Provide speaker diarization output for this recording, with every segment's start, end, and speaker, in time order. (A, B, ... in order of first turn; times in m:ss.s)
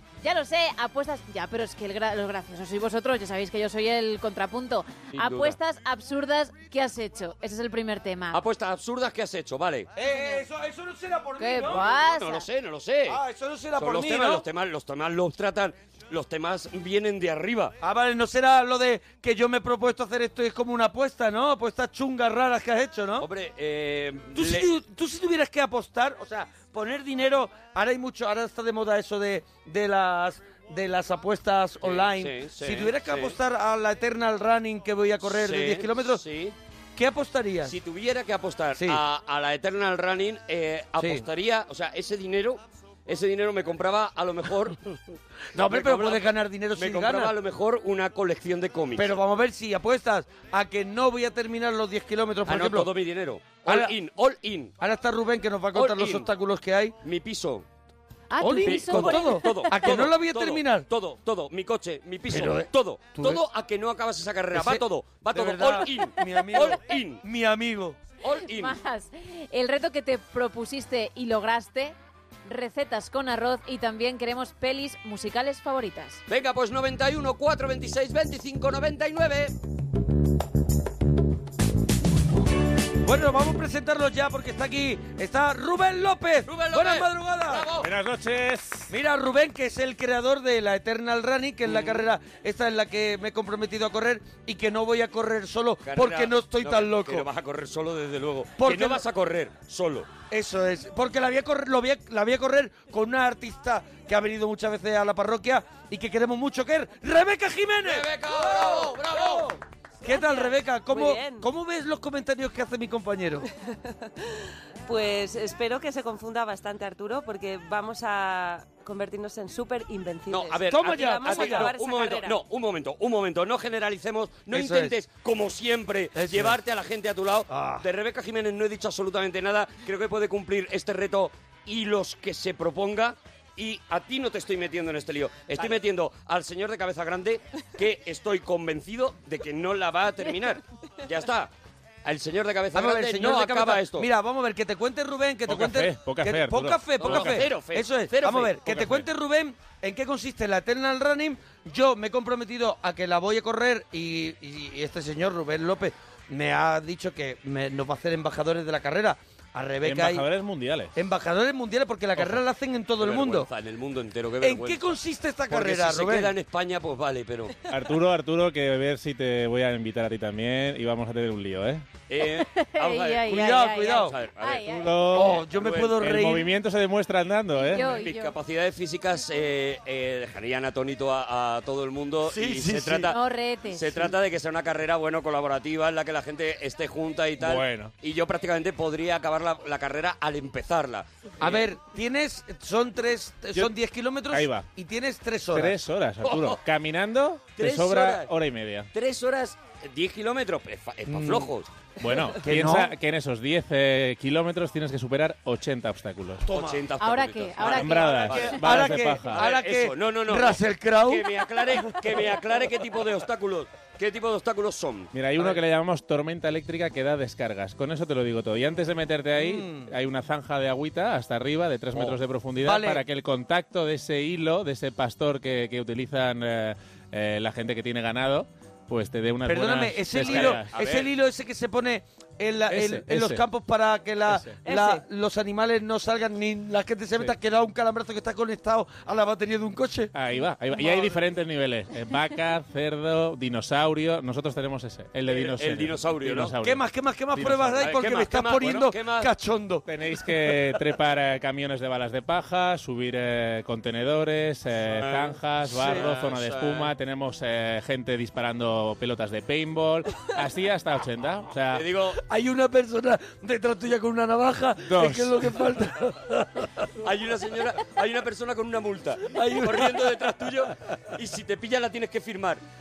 0:00.2-0:08.4 A
0:05.2-0:05.6 B
0:08.3-0:09.9 B
0:10.0-0:11.8 C
0:11.4-0:12.4 A
0:11.6-0:13.2 B
0:13.1-0:14.4 C
0:13.8-0:17.7 B
0:17.8-0:23.3 C
0:23.2-0:24.7 B
0:24.3-0:36.2 C
0:31.8-0:33.4 B
0:35.3-0:36.6 B
0:37.0-0:37.8 C
0:37.6-0:44.8 B
0:38.7-0:39.0 C
0:41.0-0:41.2 C
0:45.5-0:47.3 C
0:45.6-0:49.1 B
0:49.0-0:52.9 C
0:52.5-0:54.7 B
0:53.6-0:53.9 C
0:54.8-0:57.0 C
0:55.7-0:56.3 B
0:57.0-0:57.6 B
0:58.3-0:59.9 A
0:58.4-1:00.8 C
0:58.6-1:07.2 B
1:02.3-1:03.4 C
1:04.5-1:08.0 C
1:08.2-1:08.8 B
1:08.5-1:16.2 A
1:16.3-1:19.5 B
1:23.0-1:27.7 C
1:26.5-1:27.9 B
1:27.8-1:28.9 D
1:28.9-1:37.3 C
1:31.6-1:32.1 B
1:35.8-1:40.1 B
1:38.6-1:39.0 C
1:40.3-1:53.4 C
1:47.8-1:49.5 B
1:50.1-1:51.4 E
1:53.6-2:02.4 E
2:00.3-2:21.5 B
2:00.7-2:01.7 C
2:04.5-2:04.9 C
2:06.1-2:06.6 C
2:07.5-2:07.8 C
2:22.0-2:24.1 B
2:22.7-2:40.2 C
2:25.5-2:27.4 D
2:27.0-2:29.0 B
2:39.8-2:40.9 D
2:41.0-2:43.5 C
2:43.0-2:44.9 B
2:44.4-2:46.3 C
2:45.5-2:47.6 B
2:47.7-2:51.8 D
2:52.1-2:56.1 B
2:52.4-2:54.9 A
2:53.3-2:54.1 C
2:54.7-2:55.4 D
2:55.1-2:56.5 C
2:56.0-2:58.0 D
2:57.5-2:58.3 A
2:57.7-3:03.2 B
3:02.2-3:03.1 C
3:03.1-3:04.1 A
3:03.7-3:11.6 B
3:07.4-3:07.9 D
3:11.4-3:15.7 C
3:14.3-3:14.7 D
3:15.5-3:18.9 D
3:16.2-3:16.6 B
3:17.6-3:18.3 B
3:18.9-3:21.7 B
3:21.1-3:21.5 C
3:22.0-3:26.4 D
3:22.4-3:22.9 C
3:26.5-3:26.8 C
3:26.5-3:35.5 B
3:27.0-3:28.5 A
3:27.6-3:29.4 D
3:28.2-3:31.3 C
3:35.1-3:50.7 D
3:39.3-3:39.9 C
3:42.6-3:43.0 C
3:49.4-4:00.1 C
3:50.2-3:51.1 B
3:52.7-3:53.4 D
3:54.3-3:54.6 D
3:54.6-3:55.0 E
4:00.1-4:06.8 D
4:05.3-4:06.5 B
4:06.6-4:09.8 C
4:07.3-4:07.9 D
4:07.8-4:09.3 B
4:09.9-4:21.8 D
4:14.9-4:16.9 B
4:15.8-4:16.0 C
4:21.7-4:22.2 B
4:22.2-4:26.7 C
4:24.9-4:25.4 D
4:27.0-4:32.6 B
4:29.3-4:30.1 C